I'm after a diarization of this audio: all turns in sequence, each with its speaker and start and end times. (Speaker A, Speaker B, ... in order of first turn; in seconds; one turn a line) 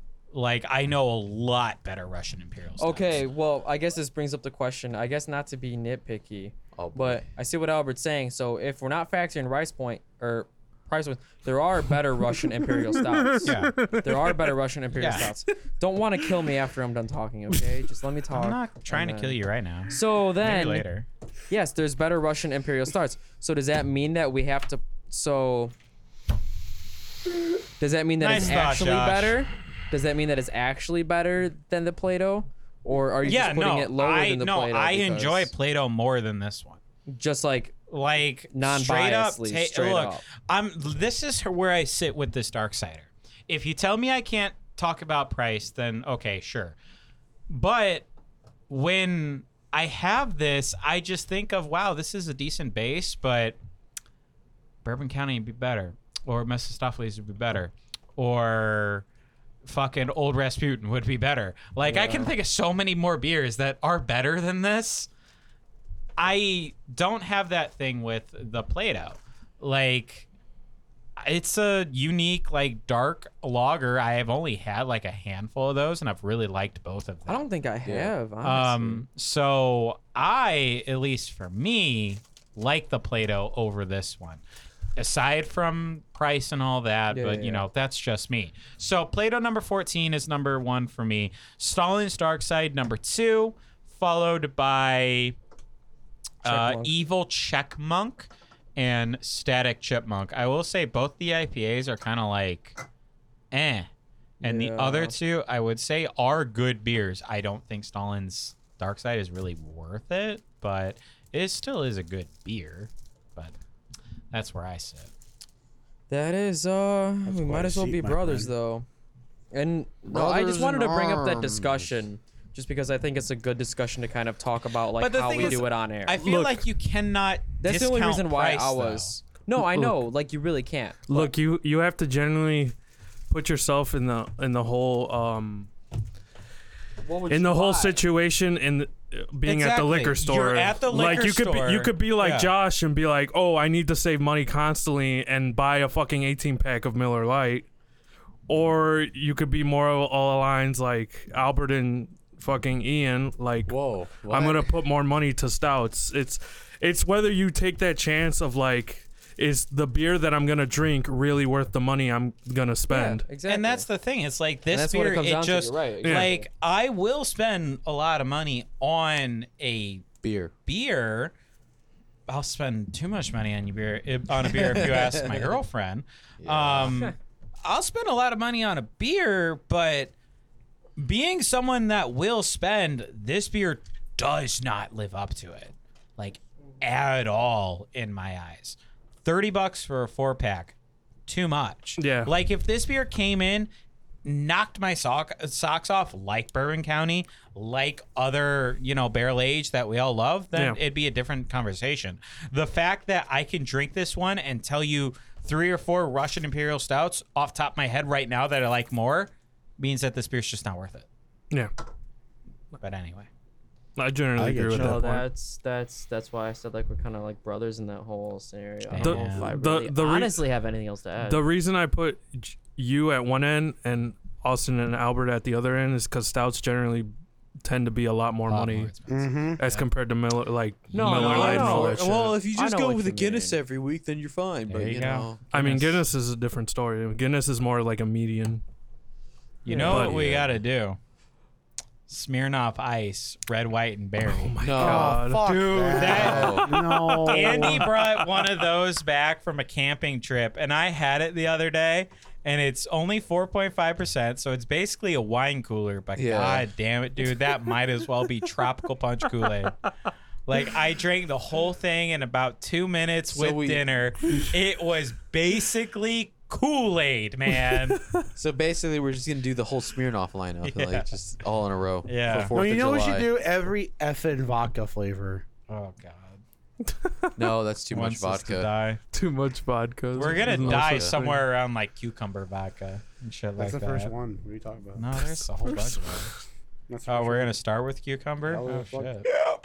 Speaker A: 0.3-3.2
Speaker B: 2.8-19.4
Speaker C: 6.7-7.2
Speaker D: 12.9-14.4
Speaker A: 13.4-13.9
Speaker A: 15.0-15.3
Speaker A: 18.3-21.1
Speaker B: 19.9-20.9
Speaker B: 21.5-25.7
Speaker B: 27.8-35.5
Speaker A: 28.2-29.4
Speaker A: 33.2-36.8
Speaker B: 37.1-37.8
Speaker A: 37.9-46.8
Speaker B: 38.5-40.2
Speaker A: 47.5-48.0
Speaker A: 48.7-53.6
Speaker A: 54.8-59.0
Speaker A: 59.6-65.1
Speaker B: 61.8-62.3
Speaker A: 66.2-70.3
Speaker A: 71.2-77.4
Speaker B: 77.2-79.0
Speaker C: 77.8-78.1
Speaker A: 78.4-84.4
Speaker A: 85.0-95.3
Speaker B: 87.1-87.7
Speaker A: 96.4-102.8
Speaker B: 96.4-96.9
Speaker A: 103.5-103.9
Speaker B: 104.4-105.1
Speaker A: 104.4-113.5
Speaker A: 114.3-115.1
Speaker B: 116.1-118.8
Speaker E: 117.2-118.5
Speaker B: 119.5-126.3
Speaker C: 120.1-122.0
Speaker A: 125.0-129.1
Speaker D: 126.2-126.6
Speaker B: 127.6-131.3
Speaker D: 129.5-130.0
Speaker D: 131.1-132.7
Speaker D: 133.3-135.7
Speaker B: 137.0-138.0
Speaker D: 137.3-147.7
Speaker A: 139.4-142.5
Speaker D: 148.5-163.2
Speaker C: 153.7-154.7
Speaker B: 162.9-163.8
Speaker A: 163.5-170.1
Speaker B: 164.7-166.4
Speaker D: 166.0-166.3
Speaker C: 170.2-170.5
Speaker A: 170.7-171.3
Speaker A: 172.3-180.1
Speaker C: 174.4-175.4
Speaker C: 176.4-177.0
Speaker A: 181.0-190.7
Speaker A: 191.3-193.7
Speaker D: 192.0-192.3
Speaker A: 194.2-211.1
Speaker D: 200.5-200.8
Speaker A: 212.8-213.3
Speaker D: 214.0-215.3
Speaker E: 214.4-215.0
Speaker B: 214.7-221.4
Speaker A: 218.9-219.5
Speaker D: 219.0-220.4
Speaker D: 221.2-227.1
Speaker D: 227.6-228.9
Speaker A: 228.5-229.8
Speaker E: 229.1-229.6
Speaker D: 229.6-232.1
Speaker B: 230.9-233.6
Speaker C: 231.0-235.4
Speaker A: 234.7-236.0
Speaker D: 235.5-238.6
Speaker A: 239.6-241.0
Speaker B: 239.7-240.0
Speaker C: 239.7-240.6
Speaker D: 239.7-240.2
Speaker A: 242.1-259.8
Speaker D: 244.2-245.5
Speaker C: 244.6-245.2
Speaker E: 244.8-247.9
Speaker C: 246.0-246.7
Speaker D: 246.0-248.5
Speaker C: 256.1-256.6
Speaker A: 260.4-268.1
Speaker C: 263.3-263.8
Speaker C: 268.3-273.3
Speaker A: 270.6-271.1
Speaker A: 272.0-272.6
Speaker E: 272.5-275.4
Speaker A: 275.7-276.4
Speaker D: 276.9-277.4
Speaker C: 277.4-278.7
Speaker A: 277.9-279.0
Speaker D: 279.1-281.4
Speaker A: 280.1-284.1
Speaker C: 280.2-281.2
Speaker E: 283.6-285.2
Speaker A: 284.9-286.3
Speaker D: 285.8-286.1
Speaker E: 286.9-287.5
Speaker A: 287.1-289.3
Speaker E: 288.4-289.2